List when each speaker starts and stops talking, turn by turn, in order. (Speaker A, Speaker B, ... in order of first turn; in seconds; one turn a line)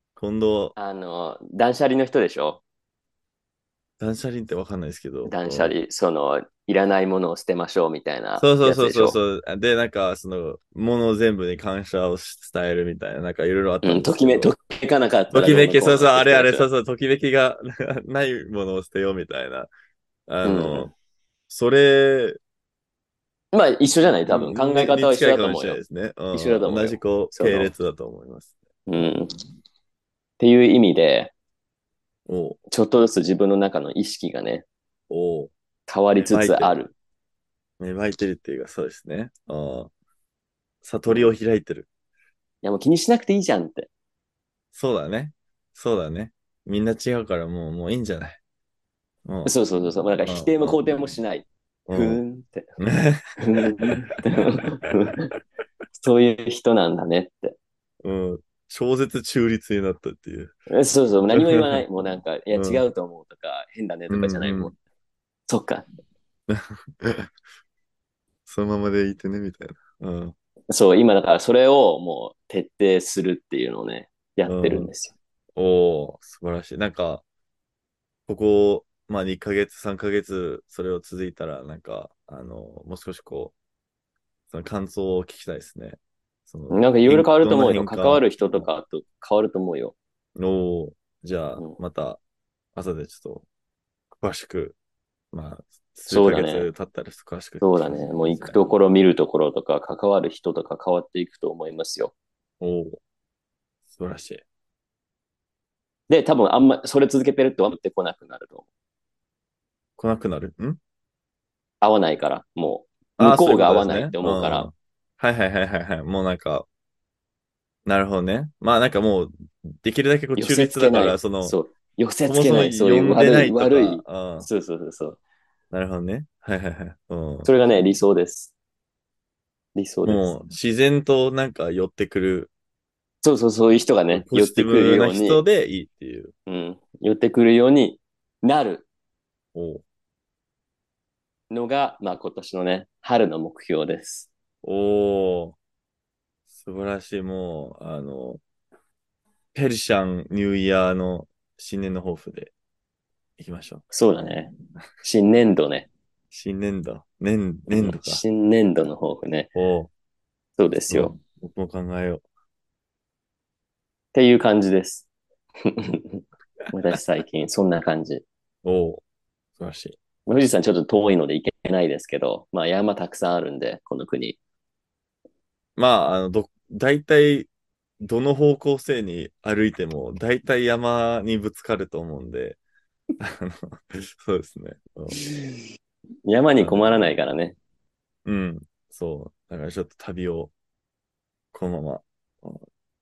Speaker A: 0.1-0.8
Speaker B: 0.8-2.6
Speaker A: 4.0-5.7
Speaker B: 5.2-9.2
Speaker A: 8.4-14.5
Speaker B: 13.8-16.7
Speaker A: 15.3-19.7
Speaker A: 20.3-20.9
Speaker B: 20.4-20.9
Speaker A: 21.5-22.4
Speaker B: 23.5-25.8
Speaker A: 24.3-29.1
Speaker B: 26.3-27.7
Speaker B: 28.9-29.3
Speaker B: 30.4-31.3
Speaker A: 32.3-32.6
Speaker B: 32.7-34.6
Speaker A: 35.1-35.5
Speaker B: 35.9-36.9
Speaker A: 36.2-36.8
Speaker A: 37.8-39.9
Speaker A: 40.8-41.9
Speaker B: 41.1-41.3
Speaker B: 42.6-43.9
Speaker A: 44.7-48.4
Speaker A: 49.2-49.5
Speaker B: 49.4-52.7
Speaker A: 50.2-50.8
Speaker A: 51.9-52.2
Speaker A: 52.8-55.1
Speaker B: 53.4-55.2
Speaker B: 55.9-57.5
Speaker A: 58.0-60.5
Speaker B: 60.7-64.7
Speaker A: 61.3-61.8
Speaker A: 62.5-62.8
Speaker A: 64.1-64.7
Speaker B: 65.5-65.9
Speaker A: 66.5-67.3
Speaker A: 68.5-70.3
Speaker B: 70.7-75.1
Speaker A: 74.4-74.9
Speaker A: 75.5-77.2
Speaker A: 78.3-83.5
Speaker A: 84.5-88.7
Speaker B: 86.7-89.9
Speaker A: 90.4-92.2
Speaker A: 92.7-93.5
Speaker A: 94.2-94.8
Speaker A: 95.3-98.6
Speaker B: 96.1-96.7
Speaker B: 97.6-102.1
Speaker A: 102.6-103.0
Speaker A: 103.9-104.4
Speaker B: 106.1-108.6
Speaker A: 110.0-110.8
Speaker B: 111.8-114.7
Speaker A: 113.2-116.7
Speaker A: 117.9-121.6
Speaker B: 120.4-125.2
Speaker A: 122.2-124.5
Speaker A: 125.7-127.5
Speaker B: 127.4-128.5
Speaker B: 129.7-130.3
Speaker A: 130.0-132.5
Speaker B: 133.2-135.4
Speaker A: 134.1-136.3
Speaker B: 136.5-138.9
Speaker A: 139.5-139.8
Speaker B: 141.5-144.3
Speaker A: 144.6-145.6
Speaker A: 146.5-148.4
Speaker A: 149.5-152.5
Speaker A: 153.4-153.9
Speaker B: 153.9-155.9
Speaker A: 156.3-158.2
Speaker B: 157.7-159.5
Speaker A: 159.6-159.9
Speaker B: 160.6-161.1
Speaker A: 160.8-162.2
Speaker B: 164.1-165.1
Speaker B: 165.6-168.2
Speaker A: 168.6-169.0
Speaker A: 169.6-170.0
Speaker B: 170.3-174.4
Speaker A: 175.8-177.5
Speaker A: 178.0-182.6
Speaker A: 183.2-185.2
Speaker B: 185.3-185.6
Speaker B: 186.3-187.6
Speaker A: 186.6-187.2
Speaker A: 188.3-190.5
Speaker A: 191.5-192.6